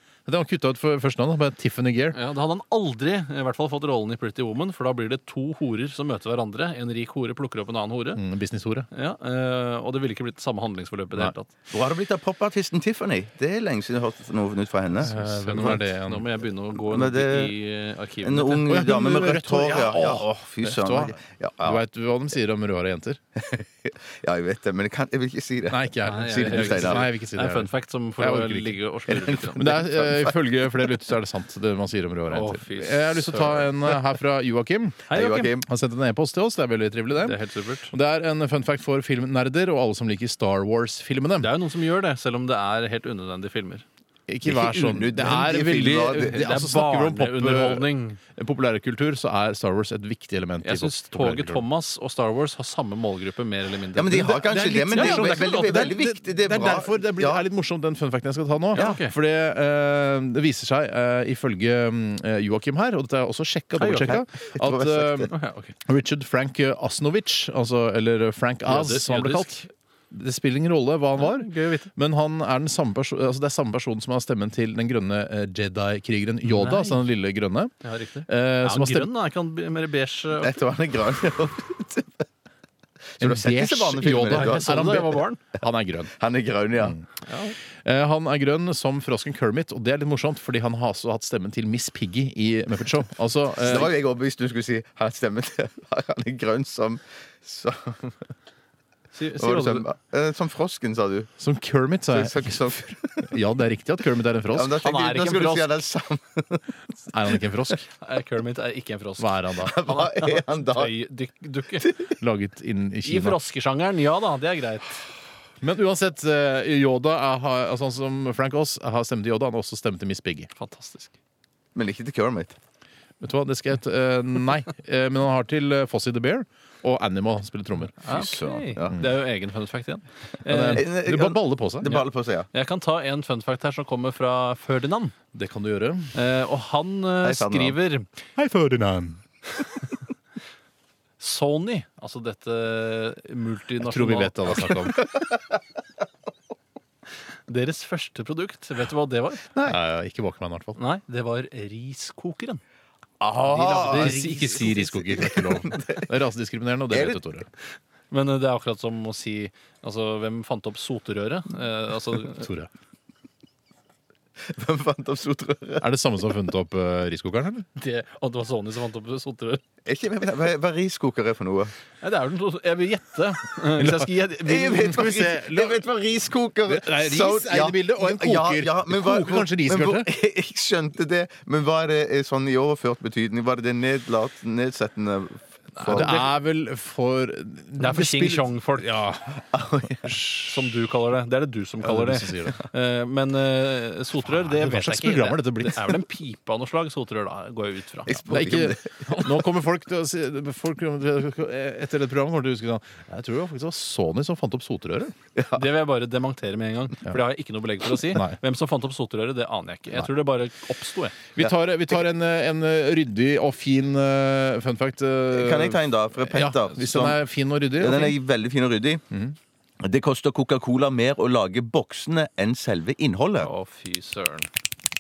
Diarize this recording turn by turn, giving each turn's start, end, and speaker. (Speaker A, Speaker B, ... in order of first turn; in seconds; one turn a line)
Speaker A: 0.3-2.2
Speaker B: 2.1-8.2
Speaker A: 8.2-8.9
Speaker B: 8.9-11.5
Speaker C: 11.7-15.8
Speaker A: 15.0-16.2
Speaker B: 15.1-18.7
Speaker C: 16.9-17.5
Speaker C: 18.2-21.8
Speaker A: 18.7-23.2
Speaker C: 23.4-27.1
Speaker A: 25.7-28.8
Speaker B: 26.1-29.6
Speaker C: 29.1-30.5
Speaker A: 29.6-35.0
Speaker B: 32.3-33.6
Speaker B: 35.1-35.5
Speaker C: 35.1-35.7
Speaker A: 35.6-37.4
Speaker B: 37.1-37.9
Speaker A: 37.9-41.5
Speaker B: 41.4-43.8
Speaker A: 44.3-51.6
Speaker C: 44.5-46.5
Speaker B: 46.1-48.2
Speaker B: 50.6-54.4
Speaker C: 53.9-57.5
Speaker A: 54.1-65.3
Speaker B: 54.9-55.7
Speaker B: 58.7-59.1
Speaker B: 63.7-64.2
Speaker C: 64.0-65.3
Speaker B: 65.3-65.7
Speaker A: 65.8-77.7
Speaker B: 68.7-69.7
Speaker B: 71.2-71.9
Speaker B: 76.4-77.1
Speaker B: 77.8-80.6
Speaker A: 78.3-79.1
Speaker C: 80.4-82.2
Speaker C: 83.2-84.9
Speaker A: 83.2-86.1
Speaker B: 84.3-85.4
Speaker C: 86.1-87.0
Speaker A: 86.8-87.1
Speaker B: 87.3-87.6
Speaker A: 87.7-93.9
Speaker C: 93.6-98.3
Speaker B: 99.1-99.9
Speaker C: 99.4-101.3
Speaker A: 101.4-102.6
Speaker C: 102.1-103.3
Speaker A: 103.2-104.8
Speaker C: 104.5-106.8
Speaker B: 104.7-105.8
Speaker A: 107.1-107.9
Speaker B: 108.0-111.9
Speaker A: 109.2-109.8
Speaker C: 109.6-110.9
Speaker A: 112.2-113.4
Speaker B: 113.0-115.1
Speaker A: 115.6-120.5
Speaker B: 120.6-121.1
Speaker C: 121.8-122.6
Speaker A: 123.2-128.0
Speaker B: 128.0-130.8
Speaker C: 128.1-129.0
Speaker A: 130.5-131.9
Speaker C: 130.8-132.5
Speaker B: 131.8-135.2
Speaker A: 135.3-136.2
Speaker B: 136.1-138.1
Speaker C: 137.2-137.8
Speaker A: 138.4-139.2
Speaker B: 141.2-144.7
Speaker A: 143.8-145.0
Speaker C: 144.5-145.5
Speaker B: 147.5-149.5
Speaker A: 149.6-150.8
Speaker B: 150.8-152.6
Speaker C: 153.2-154.3
Speaker B: 153.5-155.3
Speaker A: 153.8-157.5
Speaker C: 155.0-156.1
Speaker C: 156.9-157.2
Speaker B: 158.1-162.5
Speaker A: 162.3-162.7
Speaker C: 164.4-165.9
Speaker A: 165.8-167.7
Speaker B: 167.8-169.6
Speaker C: 169.8-171.7
Speaker B: 172.0-175.0
Speaker A: 173.8-174.1
Speaker C: 174.4-186.3
Speaker A: 174.8-175.8
Speaker A: 176.7-180.1
Speaker A: 185.8-189.4
Speaker B: 187.8-188.9
Speaker C: 189.5-190.2
Speaker A: 190.0-190.5
Speaker B: 190.4-198.2
Speaker A: 191.8-192.6
Speaker A: 194.3-195.8
Speaker C: 198.1-199.5
Speaker A: 198.3-205.1
Speaker C: 205.4-205.7
Speaker B: 205.5-211.2
Speaker A: 208.1-208.4
Speaker A: 211.4-218.2
Speaker C: 215.3-217.2
Speaker C: 217.8-219.0
Speaker A: 219.1-219.4
Speaker C: 219.8-223.5
Speaker B: 223.4-224.5